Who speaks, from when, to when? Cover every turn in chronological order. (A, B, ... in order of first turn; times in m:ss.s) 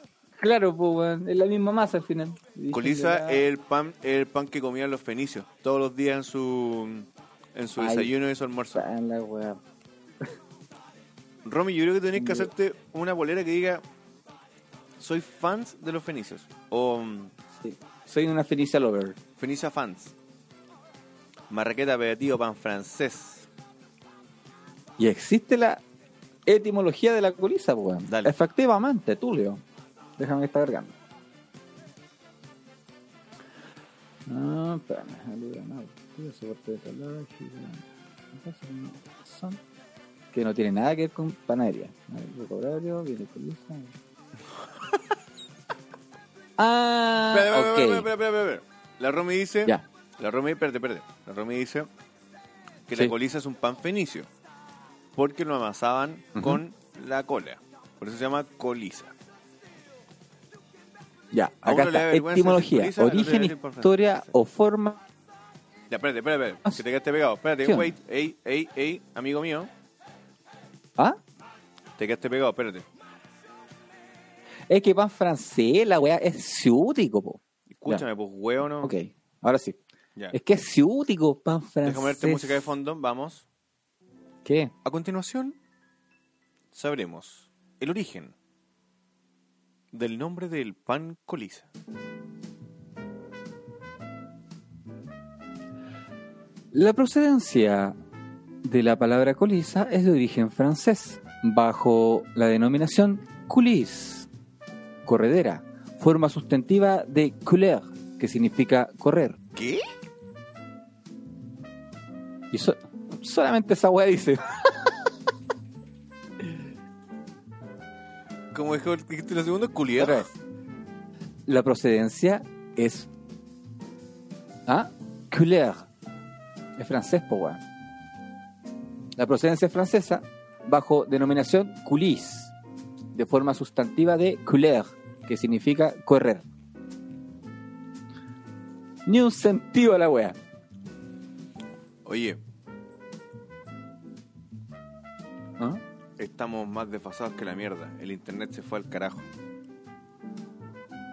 0:00.4-0:03.5 A
0:02.7-0:08.9 B
0:07.8-0:08.1 A
0:08.8-0:09.6 A
0:11.4-0:13.8 B
0:12.2-0:12.5 A
0:15.0-0:17.3 B
0:17.6-0:19.2 A
0:19.4-0:20.2 B
0:21.5-0:23.5 B
0:25.0-0:25.8 A
0:26.5-0:29.6 A
0:28.0-0:28.3 B
0:30.2-0:31.0 A
0:34.3-0:39.6 A
0:40.3-0:44.0 A
0:46.6-0:48.1 A
0:47.3-0:51.9 B
0:52.9-0:54.3 B
0:55.2-0:59.1 B
0:56.4-0:56.6 A
1:01.3-1:05.0 A
1:01.6-1:04.3 B
1:05.9-1:09.7 B
1:07.6-1:08.0 A
1:12.0-1:12.9 B
1:14.7-1:18.1 A
1:17.7-1:18.9 B
1:18.8-1:19.8 A
1:20.3-1:22.7 A
1:21.8-1:23.5 B
1:24.4-1:24.7 A
1:24.8-1:25.6 B
1:26.7-1:28.3 B
1:29.9-1:31.7 B
1:36.7-1:38.0 A
1:38.6-1:44.3 A
1:45.0-1:49.4 A
1:49.6-1:49.8 B
1:52.5-1:55.1 A
1:58.5-2:00.3 B
2:00.0-2:00.3 A
2:01.5-2:03.1 A
2:04.7-2:05.9 A
2:06.8-2:07.6 A
2:09.2-2:12.5 A
2:13.1-2:16.4 A
2:19.1-2:20.4 A
2:22.0-2:22.4 B
2:26.2-2:29.3 B